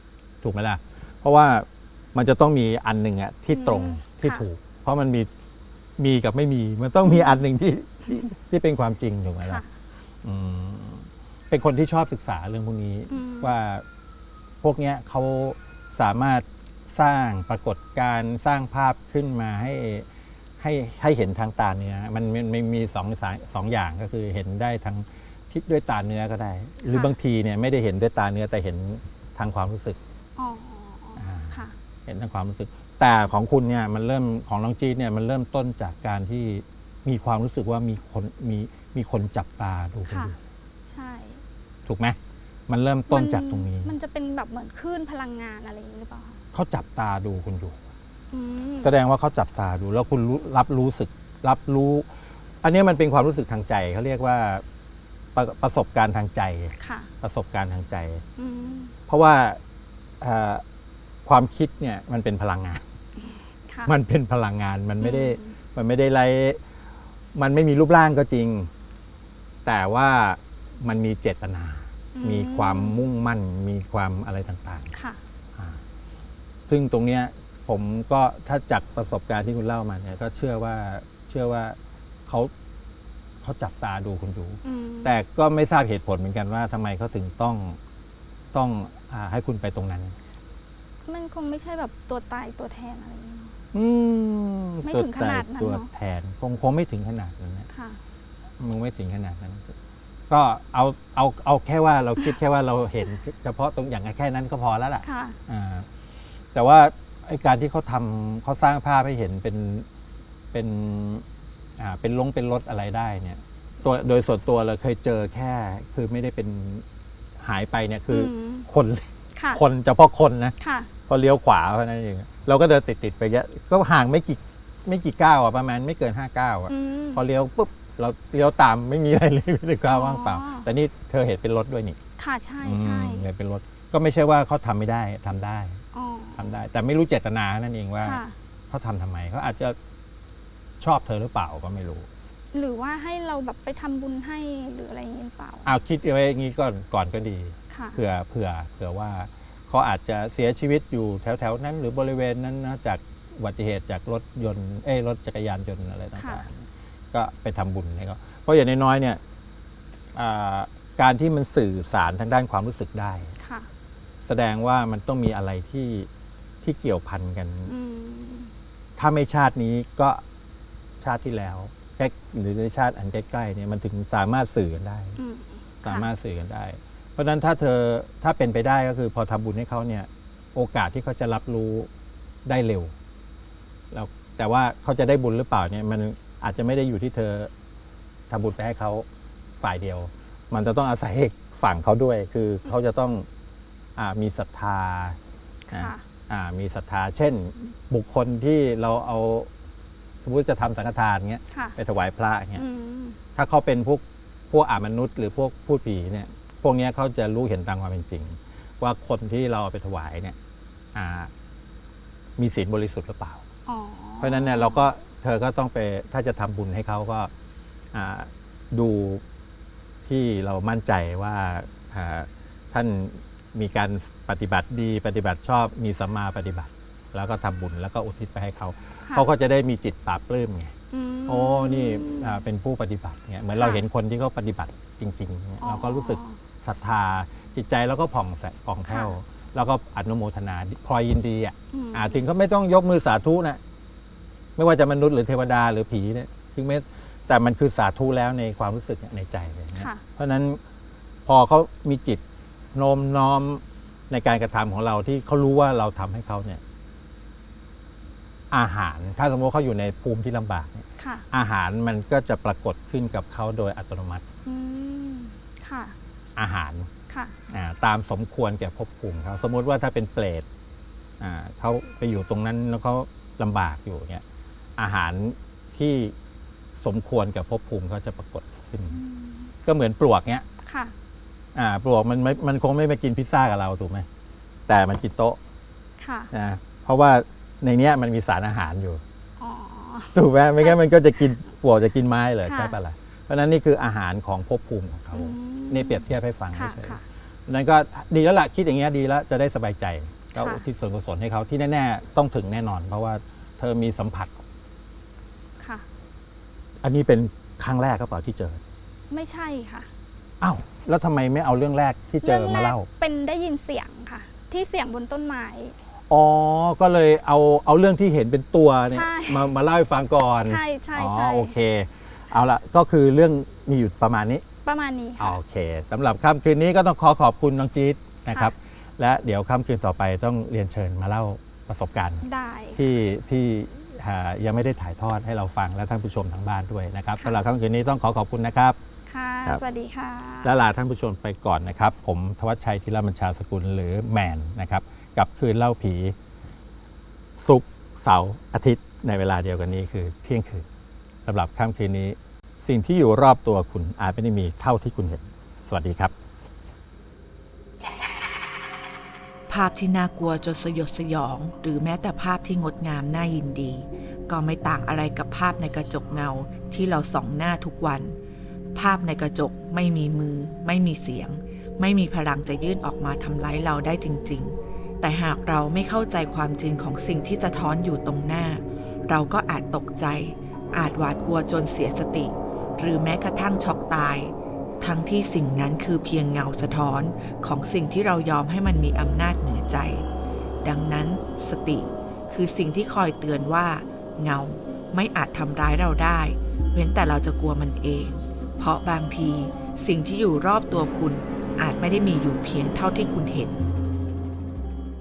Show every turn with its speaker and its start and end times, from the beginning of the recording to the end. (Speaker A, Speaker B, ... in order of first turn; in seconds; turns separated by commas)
Speaker A: 0.4-5.3, Speaker B: 3.5-4.5, Speaker A: 6.0-9.6, Speaker B: 7.0-7.4, Speaker B: 9.4-9.7, Speaker A: 10.2-13.8, Speaker B: 13.1-13.5, Speaker A: 14.6-20.1, Speaker A: 20.6-30.0, Speaker B: 26.8-27.2, Speaker B: 30.4-31.7, Speaker A: 31.2-40.4, Speaker B: 40.1-40.4, Speaker B: 40.9-41.4, Speaker A: 41.9-42.2, Speaker A: 42.7-43.9, Speaker B: 43.1-46.4, Speaker A: 46.5-47.8, Speaker B: 48.3-48.9, Speaker A: 48.8-52.1, Speaker A: 52.6-54.6, Speaker A: 55.4-58.2, Speaker B: 56.8-57.1, Speaker B: 58.4-58.9, Speaker A: 59.1-59.6, Speaker A: 60.2-60.6, Speaker A: 61.2-62.8, Speaker B: 63.7-63.9, Speaker A: 63.9-66.6, Speaker B: 65.0-65.5, Speaker A: 67.3-68.7, Speaker A: 69.7-74.9, Speaker B: 72.2-73.1, Speaker B: 74.9-75.2, Speaker A: 76.7-82.5, Speaker A: 83.4-87.8, Speaker B: 84.6-85.2, Speaker A: 88.5-90.2, Speaker B: 91.1-93.5, Speaker A: 93.7-97.7, Speaker B: 94.8-95.9, Speaker B: 97.7-98.0, Speaker A: 98.6-99.7, Speaker A: 100.3-105.9, Speaker B: 105.0-105.4, Speaker A: 106.5-109.9, Speaker A: 110.5-111.2, Speaker A: 111.8-116.8, Speaker A: 117.4-120.5, Speaker B: 118.1-118.7, Speaker B: 119.3-119.6, Speaker B: 120.6-120.9, Speaker A: 121.1-132.0, Speaker B: 126.7-127.2, Speaker B: 129.9-130.7, Speaker B: 132.2-133.3, Speaker A: 132.6-135.8, Speaker B: 135.9-136.4, Speaker A: 136.4-139.8, Speaker B: 138.0-138.3, Speaker A: 140.8-142.1, Speaker B: 142.5-145.7, Speaker A: 145.7-159.2, Speaker B: 147.7-148.0, Speaker B: 156.2-156.4, Speaker A: 160.1-163.3, Speaker B: 163.4-163.7, Speaker A: 164.2-166.1, Speaker A: 166.6-167.7, Speaker B: 167.7-168.5, Speaker A: 169.0-170.2, Speaker A: 171.0-175.2, Speaker B: 175.2-176.1, Speaker A: 175.8-181.9, Speaker A: 182.4-182.9, Speaker A: 183.9-187.5, Speaker A: 188.3-189.1, Speaker A: 189.6-193.3, Speaker A: 194.0-195.2, Speaker B: 195.7-196.0, Speaker A: 195.7-199.5, Speaker A: 200.2-202.6, Speaker B: 202.6-203.2, Speaker A: 203.4-210.4, Speaker A: 210.9-211.3, Speaker A: 212.4-213.4, Speaker B: 213.7-214.9, Speaker A: 214.2-217.3, Speaker A: 217.9-219.2, Speaker A: 220.1-230.7, Speaker B: 230.9-232.4, Speaker A: 231.3-243.6, Speaker B: 233.5-233.8, Speaker B: 235.6-236.4, Speaker B: 238.9-239.1, Speaker B: 241.7-242.2, Speaker A: 244.6-250.6, Speaker B: 249.8-250.0, Speaker A: 251.3-252.2, Speaker A: 252.7-256.6, Speaker A: 258.5-264.2, Speaker B: 261.0-261.2, Speaker B: 264.4-266.0, Speaker A: 266.4-266.9, Speaker B: 267.1-267.3, Speaker A: 267.5-270.5, Speaker A: 271.2-274.2, Speaker A: 274.8-276.1, Speaker A: 276.8-279.0, Speaker B: 278.9-279.5, Speaker A: 279.6-280.4, Speaker B: 280.6-280.9, Speaker A: 281.6-284.1, Speaker A: 284.7-285.4, Speaker B: 286.0-286.3, Speaker A: 286.3-289.0, Speaker B: 289.4-290.8, Speaker A: 290.1-304.3, Speaker B: 292.4-292.8, Speaker B: 295.1-297.0, Speaker B: 300.3-300.6, Speaker B: 305.6-305.9, Speaker A: 306.8-308.6, Speaker B: 309.1-309.9, Speaker A: 310.4-312.9, Speaker B: 312.2-315.7, Speaker A: 316.1-324.4, Speaker B: 318.9-319.5, Speaker B: 320.5-321.6, Speaker B: 324.6-325.4, Speaker A: 325.2-332.3, Speaker B: 328.3-328.5, Speaker B: 332.2-332.8, Speaker A: 332.8-338.8, Speaker B: 339.1-340.6, Speaker A: 340.4-346.2, Speaker A: 347.4-350.7, Speaker A: 351.3-356.1, Speaker C: 359.5-368.2, Speaker C: 368.8-390.1, Speaker C: 390.6-403.6